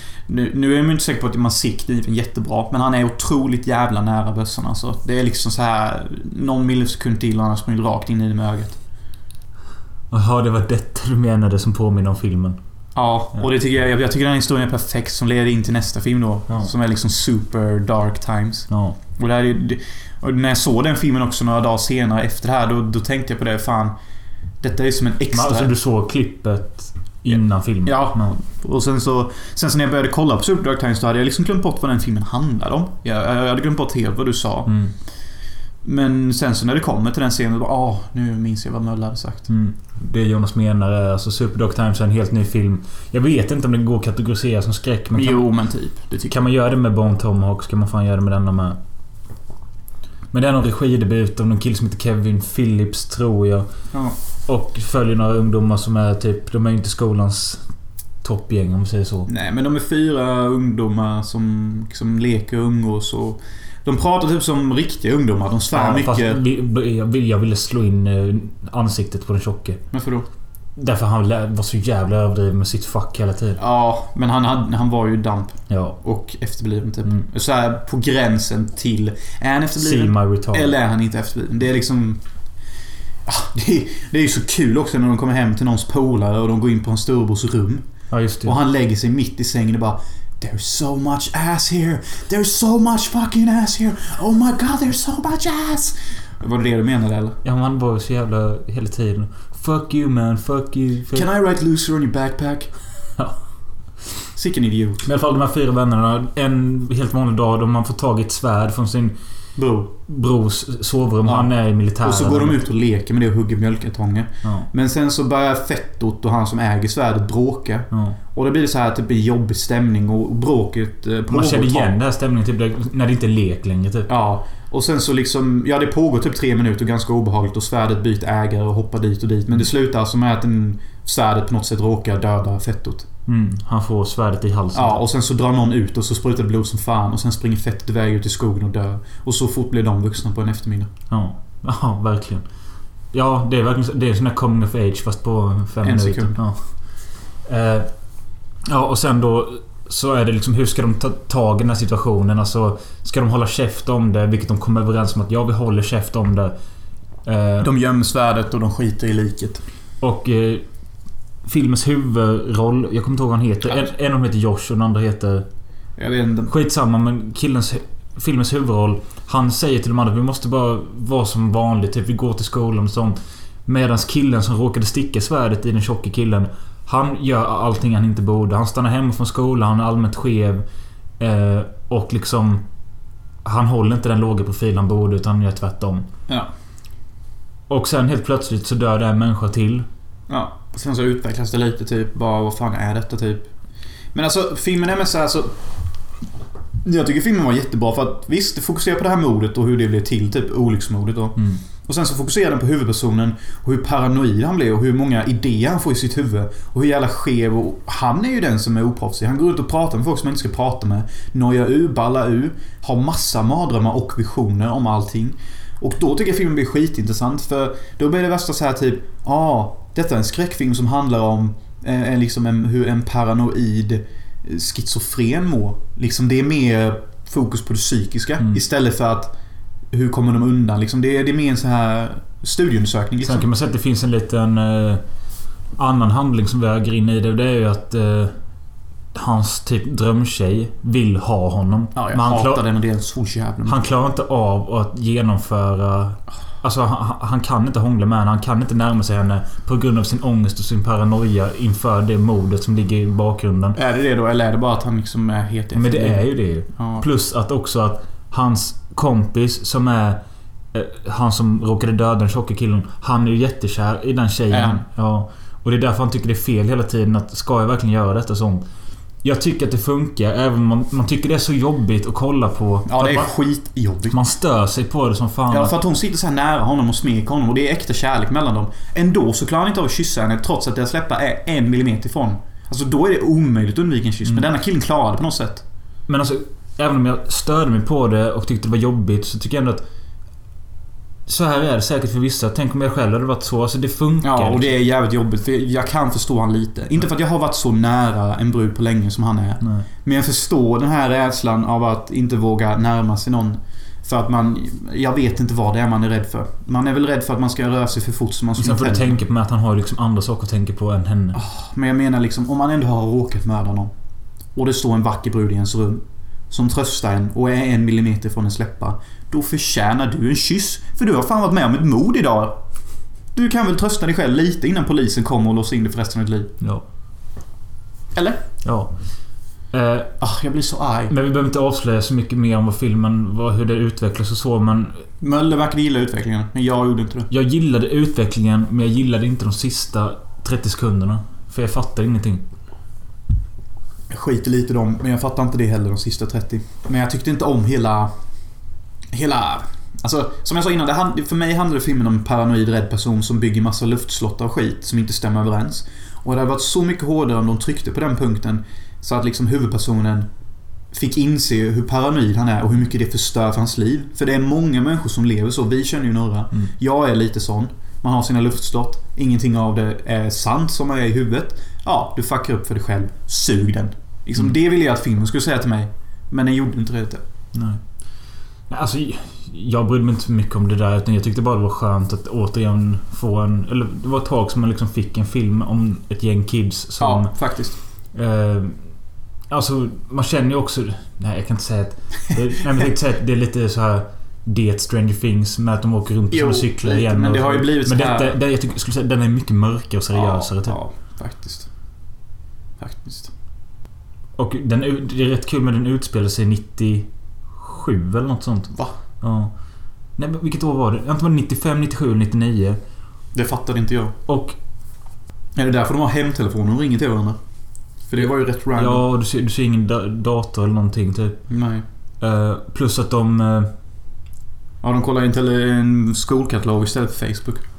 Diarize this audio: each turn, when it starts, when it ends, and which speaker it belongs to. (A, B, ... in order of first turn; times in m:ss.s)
0:00.3-0:08.8 A
0:10.1-0:12.6 B
0:12.9-0:23.9 A
0:18.7-0:19.0 B
0:24.6-0:25.7 A
0:25.3-0:28.4 B
0:27.3-0:34.7 A
0:34.7-0:34.9 B
0:35.8-0:39.5 A
0:39.5-0:45.5 B
0:45.1-0:46.4 A
0:46.3-0:48.8 B
0:50.3-0:53.7 B
0:54.5-0:57.6 B
0:58.2-0:59.3 B
0:59.3-1:06.4 A
1:05.7-1:09.8 B
1:09.9-1:10.3 A
1:10.8-1:13.6 B
1:13.6-1:22.2 A
1:15.7-1:16.0 B
1:19.8-1:20.7 B
1:23.3-1:27.8 A
1:28.1-1:28.6 B
1:28.4-1:37.4 A
1:37.4-1:41.3 B
1:41.1-1:42.7 A
1:44.3-1:45.1 A
1:45.0-1:49.2 B
1:49.6-1:49.9 A
1:50.1-1:52.6 B
1:51.2-2:01.9 A
1:57.9-1:58.2 B
2:01.3-2:04.1 B
2:04.1-2:13.1 A
2:13.3-2:15.0 B
2:14.7-2:20.9 A
2:21.1-2:22.4 B
2:23.1-2:26.8 B
2:25.8-2:26.4 A
2:27.4-2:27.9 B
2:28.7-2:36.5 B
2:37.2-2:37.7 B
2:37.6-2:39.6 A
2:40.0-2:40.6 B
2:41.4-2:45.5 B
2:46.0-2:46.5 A
2:46.5-3:00.6 B
3:01.2-3:02.6 B
3:03.4-3:06.1 B
3:07.7-3:09.9 B
3:10.3-3:13.5 A
3:14.1-3:15.5 A
3:16.8-3:49.3 A
3:49.9-3:53.5 A
3:53.2-3:55.0 B
3:55.8-3:58.4 B
3:59.1-4:02.6 B
4:02.0-4:03.8 A
4:03.7-4:13.8 B
4:13.8-4:17.0 A
4:15.7-4:20.2 B
4:20.7-4:28.6 B
4:24.5-4:24.8 A
4:29.2-4:33.3 B
4:32.9-4:34.2 A
4:34.1-4:35.7 B
4:35.5-4:45.6 A
4:46.1-4:49.8 B
4:51.3-4:54.7 B
4:54.2-5:09.2 A
4:59.6-4:59.8 B
5:08.6-5:11.4 B
5:11.3-5:13.9 A
5:14.5-5:22.6 A
5:23.3-5:26.6 A
5:28.1-5:28.4 A
5:28.6-5:28.9 B
5:29.7-5:30.1 B
5:30.2-5:31.1 A
5:31.1-5:35.0 B
5:35.2-5:37.3 A
5:37.3-5:42.4 B
5:44.1-5:48.1 A
5:49.1-6:00.3 A
6:00.9-6:17.2 A
6:17.5-6:17.8 B
6:18.7-6:27.3 B
6:27.0-6:27.8 A
6:28.1-6:28.8 B
6:29.5-6:40.8 B
6:36.3-6:38.4 A
6:40.1-6:41.7 A
6:42.8-6:43.3 A
6:44.4-6:49.5 B
6:50.2-6:52.8 B
6:53.3-6:54.2 A
6:54.3-6:54.6 B
6:55.6-6:57.4 A
6:58.1-6:59.0 A
6:58.2-7:01.4 B
7:01.5-7:01.8 A
7:02.2-7:03.7 B
7:04.8-7:07.6 A